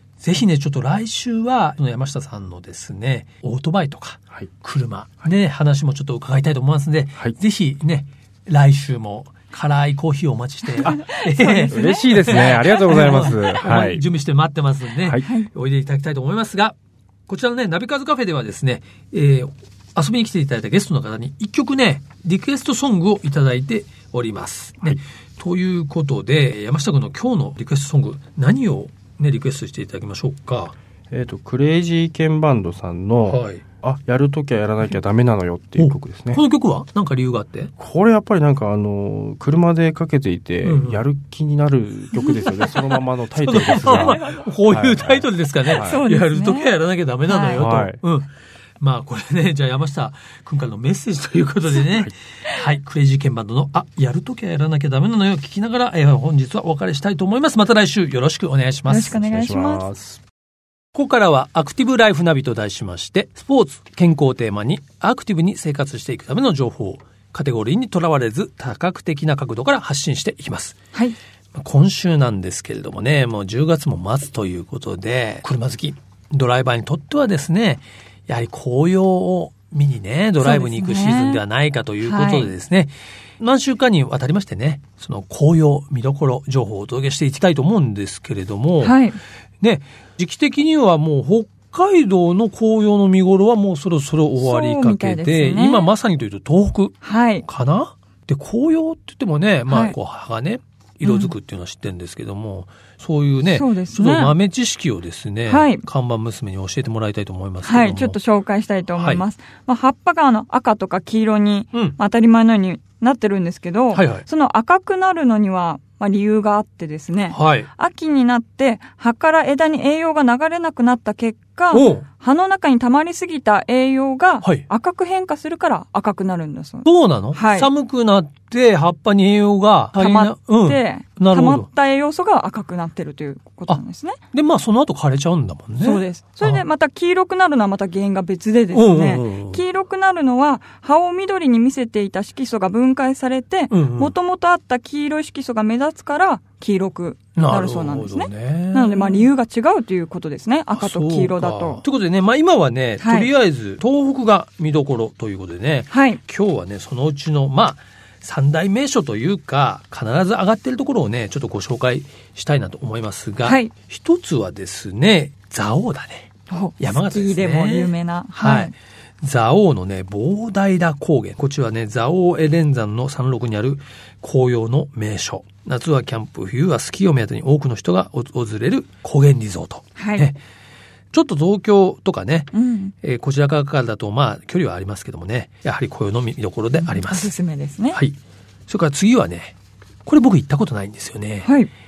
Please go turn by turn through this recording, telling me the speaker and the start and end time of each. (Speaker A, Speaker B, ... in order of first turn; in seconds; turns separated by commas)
Speaker A: 0.2-16.7, Speaker B: 10.8-13.3, Speaker C: 11.7-14.0, Speaker B: 15.2-15.5, Speaker A: 17.3-30.7, Speaker C: 31.1-36.4, Speaker A: 33.2-33.6, Speaker A: 35.8-37.7, Speaker C: 37.8-46.0, Speaker A: 40.6-41.0, Speaker A: 42.6-48.3, Speaker B: 43.9-44.5, Speaker B: 45.7-46.8, Speaker B: 47.3-47.6, Speaker C: 47.5-48.0, Speaker A: 48.8-59.2, Speaker B: 58.9-59.8, Speaker C: 59.1-60.2, Speaker A: 60.9-70.8, Speaker A: 71.5-89.0, Speaker B: 80.4-81.4, Speaker B: 82.0-82.5, Speaker B: 88.8-89.2, Speaker A: 89.6-108.2, Speaker B: 94.4-95.9, Speaker B: 97.0-97.4, Speaker B: 99.7-99.9, Speaker B: 101.0-101.3, Speaker B: 103.5-104.3, Speaker B: 105.5-105.8, Speaker B: 107.6-127.7, Speaker A: 108.9-109.2, Speaker A: 113.9-114.2, Speaker A: 117.3-117.7, Speaker A: 121.7-122.0, Speaker A: 126.8-131.7, Speaker B: 129.9-134.2, Speaker A: 134.3-136.6, Speaker B: 135.8-151.8, Speaker A: 138.7-139.6, Speaker A: 143.7-144.1, Speaker A: 147.3-149.3, Speaker A: 150.7-180.4, Speaker B: 153.0-153.3, Speaker B: 155.9-156.2, Speaker B: 163.4-163.7, Speaker B: 166.5-168.7, Speaker B: 179.9-180.3, Speaker A: 181.1-182.5, Speaker B: 182.5-182.9, Speaker A: 183.0-187.3, Speaker B: 186.8-188.0, Speaker A: 188.7-189.5, Speaker A: 190.1-191.5, Speaker B: 191.4-191.7